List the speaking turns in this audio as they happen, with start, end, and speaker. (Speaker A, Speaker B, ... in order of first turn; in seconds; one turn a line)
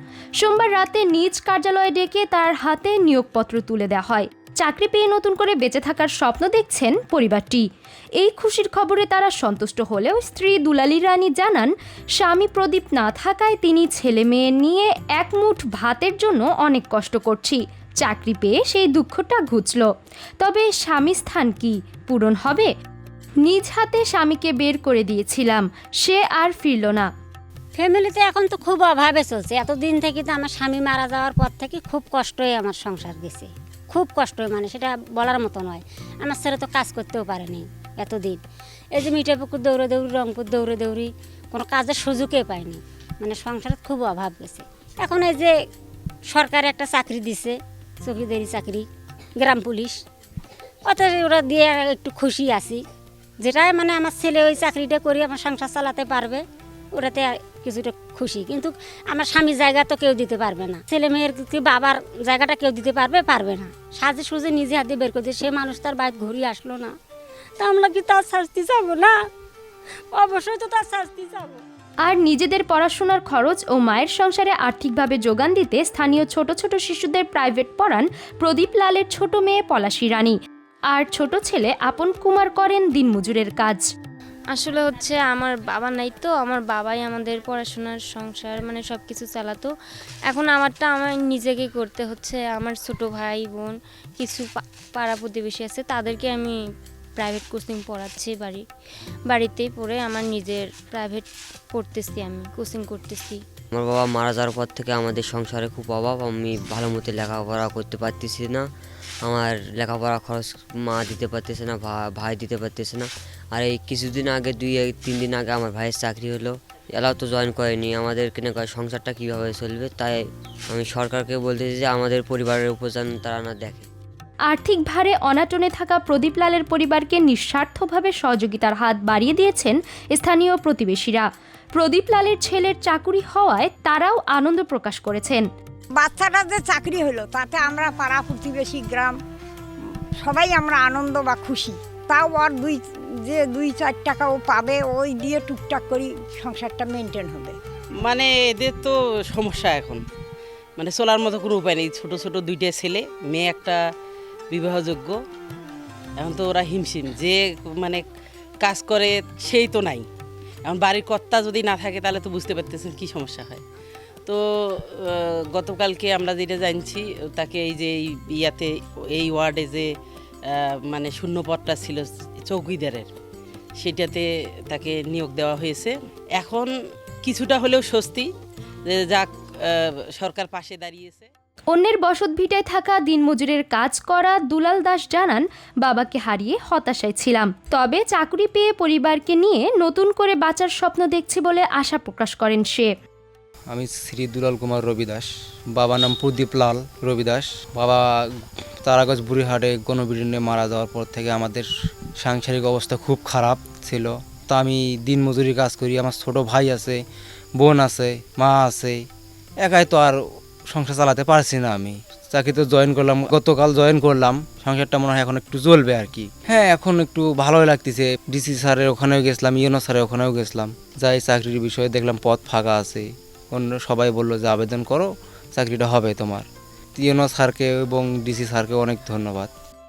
Speaker A: 0.4-7.6
Speaker A: 8.2-19.9
Speaker A: 20.4-22.7
Speaker A: 23.4-27.1
Speaker B: 27.8-38.4
Speaker B: 38.9-45.5
Speaker B: 46.3-48.9
Speaker B: 49.4-49.9
Speaker B: 50.9-52.8
Speaker B: 53.4-56.4
Speaker B: 56.9-66.9
Speaker B: 67.6-69.1
Speaker B: 70.1-71.6
Speaker A: 72.0-80.3
Speaker A: 80.9-83.9
Speaker C: 84.5-89.7
Speaker C: 90.3-96.6
Speaker C: 97.2-98.6
Speaker C: 99.3-103.4
Speaker D: 103.7-108.7
Speaker D: 109.2-123.9
Speaker A: 124.5-135.5
Speaker E: 135.9-139.2
Speaker E: 140.2-147.6
Speaker F: 148.0-150.0
Speaker F: 150.8-153.8
Speaker F: 154.5-155.2
Speaker F: 156.2-158.0
Speaker F: 158.6-160.1
Speaker F: 160.7-163.6
Speaker F: 164.2-169.9
Speaker F: 170.5-173.1
Speaker F: 173.8-176.7
Speaker F: 177.2-178.3
Speaker F: 178.9-181.3
Speaker A: 181.7-192.9
Speaker G: 193.7-198.0
Speaker G: 198.8-201.7
Speaker G: 202.2-207.0
Speaker G: 207.6-209.0
Speaker G: 209.6-226.4
Speaker G: 227.0-229.5